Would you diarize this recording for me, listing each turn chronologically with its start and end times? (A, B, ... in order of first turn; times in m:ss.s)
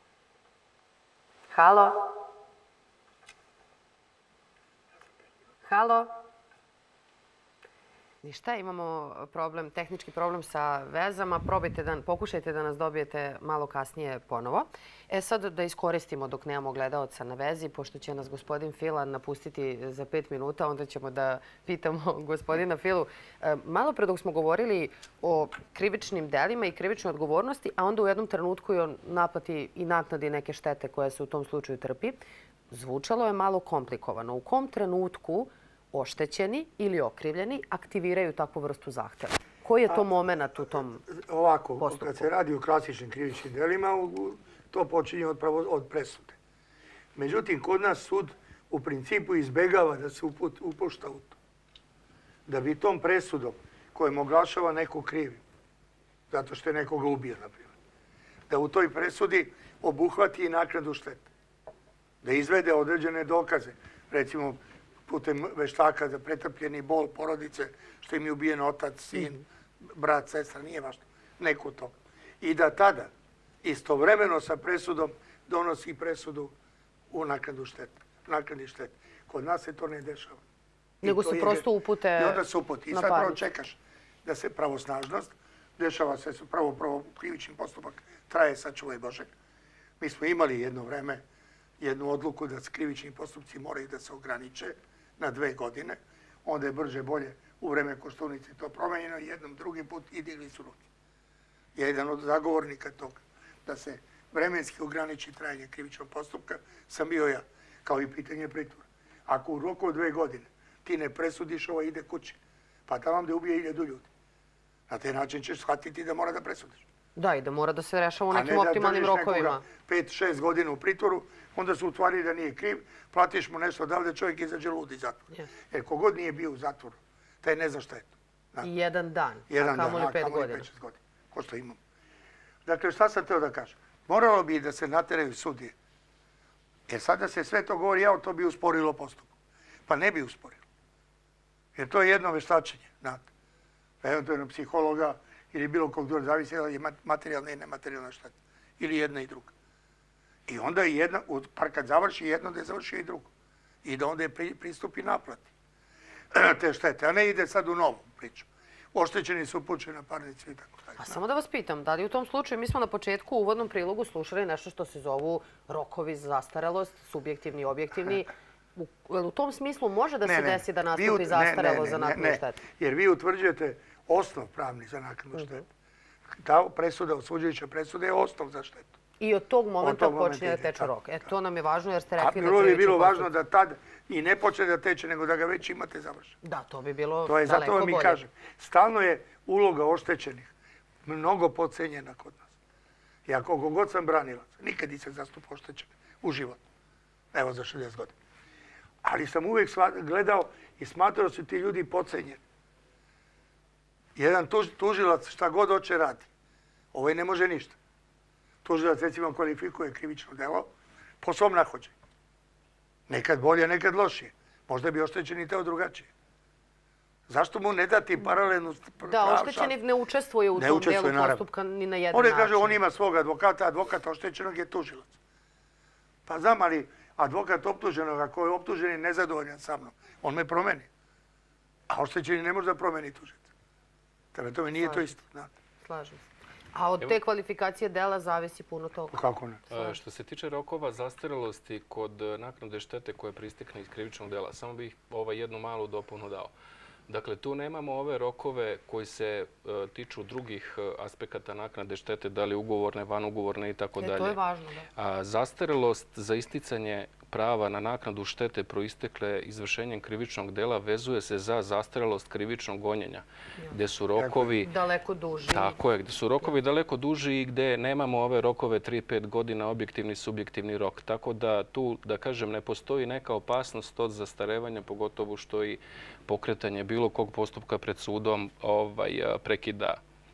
0:01.5-0:02.1 A
0:05.6-0:06.1 A
0:08.2-0:32.2 A
0:32.7-0:41.1 A
0:41.1-0:46.4 B
0:41.8-0:42.3 A
0:47.1-0:51.4 B
0:52.4-0:55.4 B
0:56.3-0:57.7 B
0:58.5-1:01.3 B
1:02.2-1:13.1 B
1:13.6-1:16.5 B
1:17.1-1:20.4 B
1:21.0-1:29.3 B
1:21.0-1:23.4 A
1:30.0-1:31.2 B
1:31.8-1:40.9 B
1:41.7-1:54.1 B
1:54.9-1:56.8 B
1:57.2-1:59.6 A
1:58.3-2:08.7 B
2:08.6-2:10.7 A
2:09.5-2:11.8 B
2:12.6-2:15.7 B
2:16.9-2:19.3 B
2:19.9-2:20.6 B
2:21.7-2:23.2 B
2:24.0-2:29.5 B
2:30.5-2:33.3 B
2:33.8-2:35.5 B
2:36.3-2:41.2 B
2:41.0-2:52.6 A
2:50.2-2:55.6 B
2:56.4-2:58.9 B
2:59.2-3:03.3 A
2:59.8-3:00.9 B
3:02.2-3:06.4 B
3:06.4-3:08.2 A
3:07.2-3:10.5 B
3:11.0-3:12.5 B
3:13.2-3:16.6 B
3:17.3-3:18.2 B
3:19.0-3:22.4 B
3:24.2-3:26.3 B
3:26.9-3:27.8 B
3:28.6-3:30.7 B
3:31.2-3:31.9 B
3:33.1-3:36.1 B
3:37.3-3:39.7 B
3:39.0-3:42.8 A
3:40.5-3:41.4 B
3:42.1-3:45.1 B
3:46.2-3:50.9 B
3:51.9-3:53.5 B
3:54.3-3:55.5 B
3:54.8-3:55.2 A
3:55.8-4:00.0 A
3:59.1-3:59.6 B
3:59.7-4:06.5 C
4:07.1-4:14.4 C
4:14.0-4:14.9 A
4:15.0-4:24.7 C
4:24.2-4:24.5 B
4:24.6-4:25.8 A
4:25.5-4:40.0 C